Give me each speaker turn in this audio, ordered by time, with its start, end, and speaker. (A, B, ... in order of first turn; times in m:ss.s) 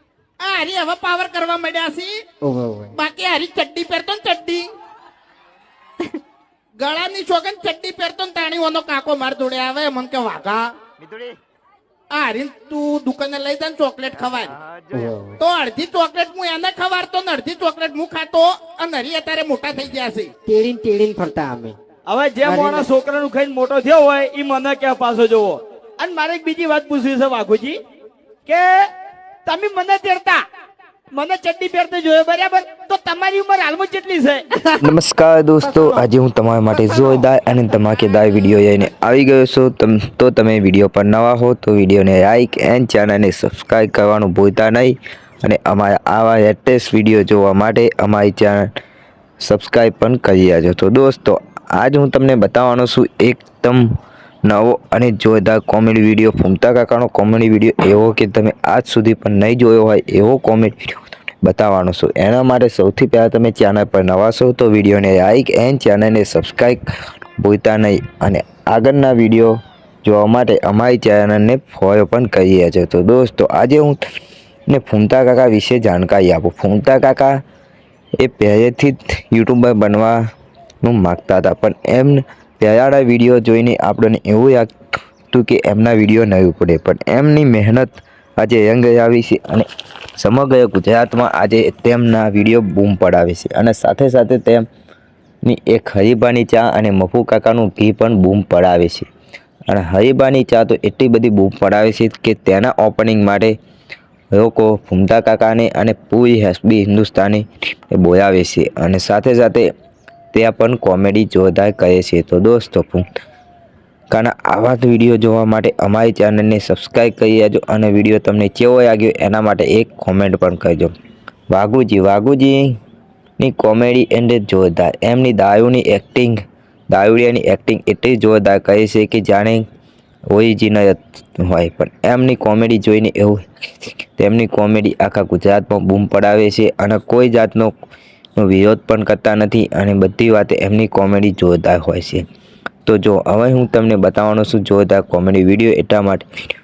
0:00.4-0:02.1 A
0:02.4-0:02.9 B
0:02.9-0:04.6 A
0:06.8-0:10.6 A
0:12.1-0:14.5 A
0:14.9-0:15.4 B
0:15.4-0:20.3 A
0:20.4-0:21.8 B
0:22.1-0:27.8 C
0:22.4-0:22.8 B
0:28.4-0:28.9 C
0:29.4-0:30.4 C
0:31.1-0:34.7 C
0:34.8-0:48.7 D
0:49.4-0:53.9 D
0:54.4-1:00.9 D
1:01.4-1:06.8 D
1:07.4-1:14.0 D
1:14.7-1:17.4 D
1:18.2-1:20.2 D
1:20.8-1:24.7 D
1:25.3-1:34.6 D
1:35.4-1:39.1 D
1:39.7-1:43.6 D
1:44.3-1:49.7 D
1:50.3-1:53.0 D
1:54.1-2:00.9 D
2:01.5-2:02.7 D
2:03.4-2:06.4 D
2:06.9-2:09.6 D
2:10.3-2:13.4 D
2:14.2-2:17.7 D
2:18.4-2:22.2 D
2:22.8-2:26.2 D